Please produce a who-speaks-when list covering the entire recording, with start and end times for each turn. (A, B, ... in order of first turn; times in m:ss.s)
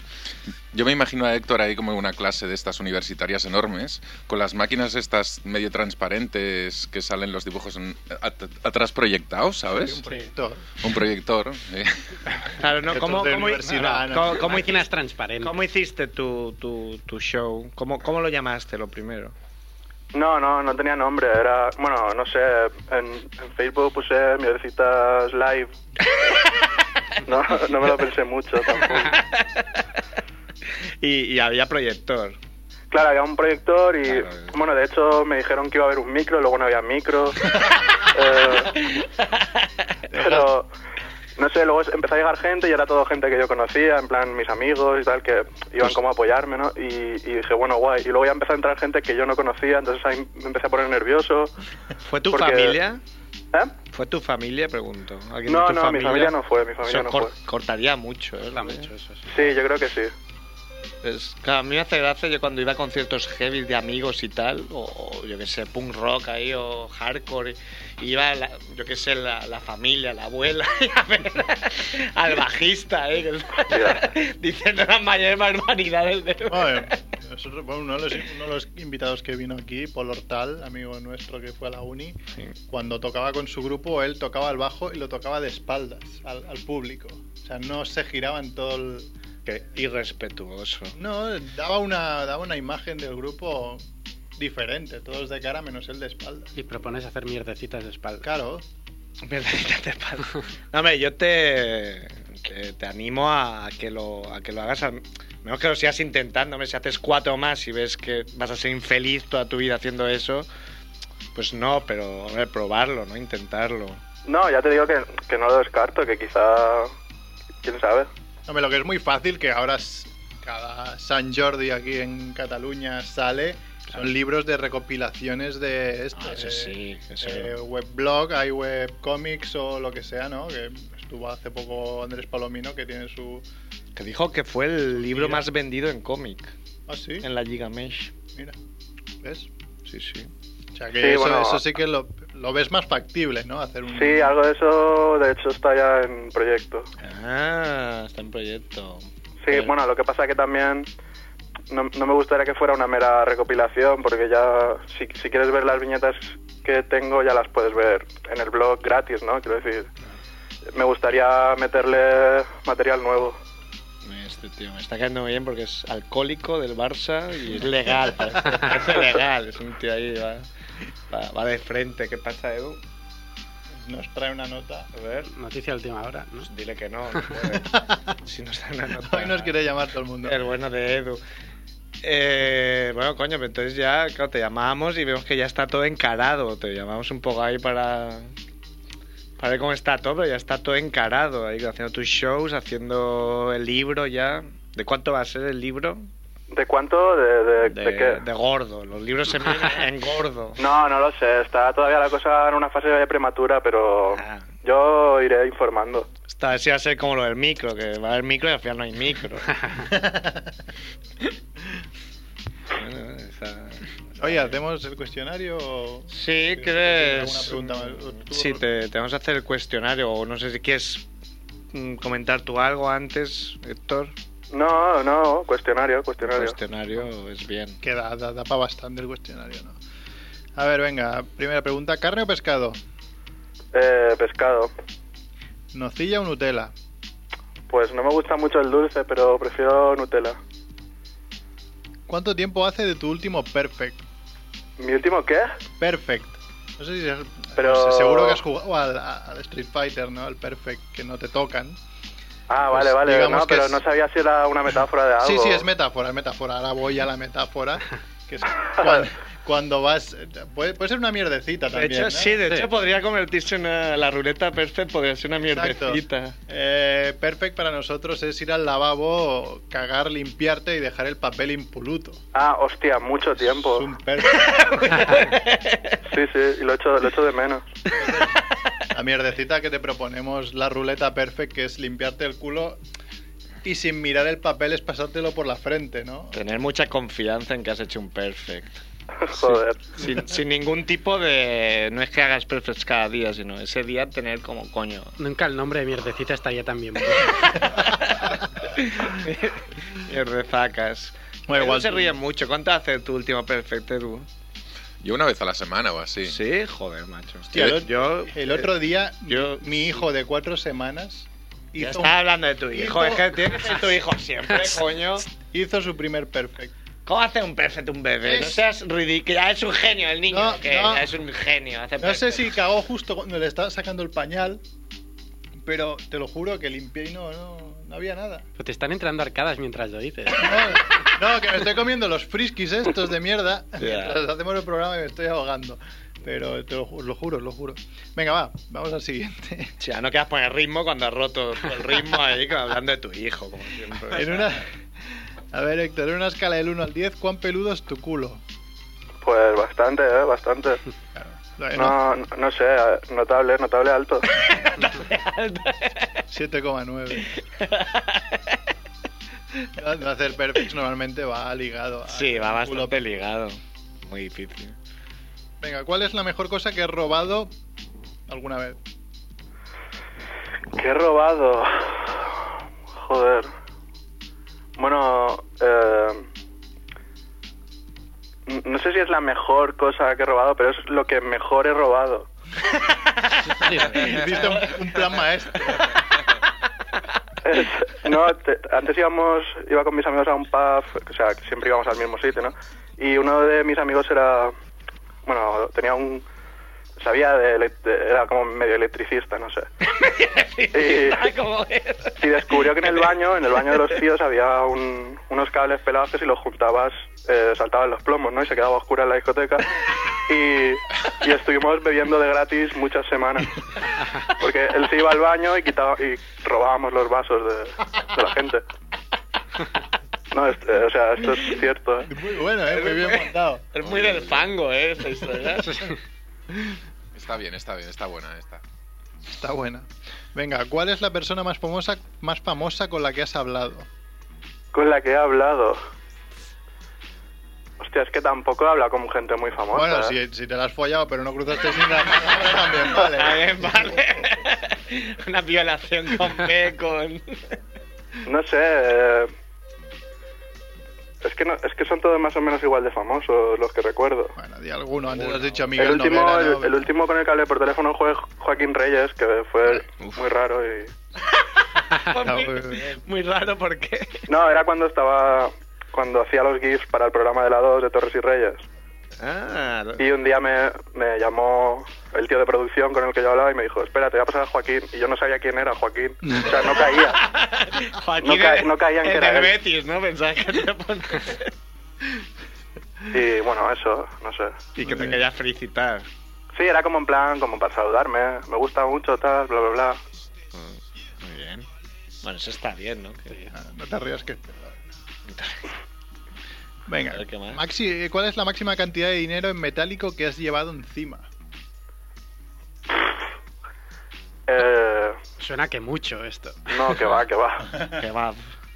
0:00.7-0:10.0 A
0:09.8-0:10.7 B
0:10.8-0:12.1 A
0:12.6-0:19.3 C
0:12.9-0:14.6 B
0:14.3-0:15.5 D
0:20.1-0:25.7 E
0:26.1-0:26.8 C
0:27.2-0:29.2 E
0:29.0-0:29.8 C
0:31.0-0:32.4 C
0:32.9-0:38.8 E
0:34.0-0:34.6 C
0:38.7-0:39.9 C
0:40.1-0:40.5 B
0:40.1-0:40.7 E
0:41.4-0:51.5 E
0:52.0-0:53.0 C
0:52.3-0:52.8 E
0:53.9-0:56.3 C
0:55.5-0:57.3 E
0:56.8-0:58.9 C
0:58.5-0:59.4 D
0:59.3-1:00.1 E
1:01.0-1:17.0 C
1:13.7-1:14.0 E
1:16.5-1:22.2 B
1:22.7-1:29.1 B
1:29.4-1:30.9 C
1:30.9-1:33.8 B
1:34.4-1:36.5 B
1:36.6-1:38.2 D
1:38.2-1:38.6 B
1:39.2-1:50.5 C
1:51.3-1:54.0 C
1:54.2-1:56.9 E
1:57.6-1:58.1 E
1:58.5-2:13.4 B
2:06.1-2:07.5 C
2:14.0-2:16.5 C
2:15.0-2:15.5 B
2:16.9-2:17.2 B
2:17.2-2:18.1 C
2:19.2-2:19.5 B
2:19.8-2:20.3 C
2:20.7-2:24.3 B
2:21.0-2:21.6 E
2:23.9-2:26.9 E
2:27.0-2:29.7 C
2:29.4-2:30.9 E
2:31.7-2:39.9 E
2:40.7-2:43.4 E
2:44.0-2:50.5 C
2:51.1-2:52.8 C
2:53.8-2:54.9 B
2:54.9-2:55.3 C
2:55.3-2:56.5 D
2:56.4-2:59.6 C
2:59.0-3:00.4 B
3:00.2-3:01.2 C
3:02.0-3:08.3 C
3:09.4-3:16.1 C
3:16.5-3:18.2 E
3:17.6-3:20.6 C
3:20.6-3:26.1 E
3:24.1-3:24.5 C
3:26.3-3:29.5 C
3:29.8-3:30.5 B
3:32.7-3:34.5 C
3:34.2-3:38.6 B
3:36.1-3:41.0 C
3:41.7-3:44.1 C
3:44.5-3:46.6 E
3:46.2-3:47.8 C
3:47.8-3:49.8 B
3:50.6-3:52.8 B
3:53.7-3:54.7 E
3:55.7-3:56.7 B
3:57.7-4:00.4 E
4:02.1-4:04.0 B
4:04.8-4:05.4 E
4:05.8-4:11.8 B
4:07.6-4:08.4 E
4:12.5-4:15.6 E
4:12.6-4:13.8 B
4:15.2-4:22.4 B
4:21.7-4:26.4 C
4:25.5-4:32.2 B
4:32.3-4:33.9 E
4:33.5-4:34.6 B
4:34.2-4:36.0 C
4:36.0-4:37.6 E
4:38.0-4:42.8 B
4:38.0-4:38.8 C
4:43.6-4:46.3 B
4:46.3-4:48.8 C
4:49.2-4:49.8 E
4:49.3-4:55.1 C
4:55.2-4:57.8 D
4:57.4-5:04.3 C
5:01.5-5:02.1 B
5:05.0-5:06.4 A
5:06.2-5:08.7 C
5:07.5-5:13.5 B
5:09.2-5:10.1 C
5:11.8-5:15.3 C
5:15.4-5:16.7 B
5:17.0-5:22.6 C
5:18.2-5:18.6 B
5:20.3-5:21.1 B
5:22.0-5:24.6 B
5:25.6-5:28.5 B
5:28.6-5:30.8 D
5:30.4-5:39.7 B
5:33.8-5:34.2 C
5:39.8-5:44.5 C
5:44.1-5:44.7 B
5:45.5-5:48.4 B
5:49.2-5:50.8 E
5:51.1-5:52.0 B
5:51.7-5:54.3 E
5:54.4-5:56.2 C
5:56.3-5:57.3 B
5:57.4-5:58.6 C
5:59.8-6:03.1 B
6:02.1-6:04.8 C
6:05.6-6:07.5 B
6:08.3-6:08.8 B
6:10.7-6:12.4 E
6:12.9-6:13.5 E
6:14.8-6:16.2 E
6:18.5-6:22.3 E
6:22.7-6:25.0 C
6:23.6-6:24.1 D
6:23.8-6:26.0 B
6:27.4-6:34.5 E
6:35.2-6:36.2 E
6:37.0-6:39.7 E
6:39.8-6:44.0 C
6:40.7-6:41.2 E
6:42.2-6:53.6 E
6:54.2-6:58.6 E
7:00.3-7:02.1 E
7:02.1-7:03.6 B
7:02.7-7:06.0 C
7:03.8-7:04.5 A
7:07.1-7:08.6 A
7:09.3-7:13.9 B
7:14.7-7:15.8 E
7:17.8-7:20.1 E
7:19.7-7:23.6 B
7:22.9-7:27.6 C
7:28.2-7:29.3 E
7:31.2-7:34.3 E
7:34.4-7:36.9 B
7:35.8-7:40.9 E
7:41.3-7:44.2 C
7:42.2-7:42.9 B
7:44.3-7:48.6 E
7:49.2-7:50.1 C
7:50.0-7:57.2 E
7:56.2-7:56.6 B
7:56.8-8:02.2 C
7:58.2-7:59.5 E
8:03.1-8:04.6 E
8:04.8-8:06.1 C
8:04.8-8:05.2 B
8:06.6-8:10.0 E
8:10.5-8:11.6 C
8:12.2-8:13.4 C
8:13.5-8:14.8 B
8:15.3-8:15.7 C
8:16.9-8:21.3 B
8:17.1-8:17.6 C
8:24.5-8:25.2 E
8:25.4-8:26.9 D
8:26.7-8:27.7 E
8:27.9-8:28.5 C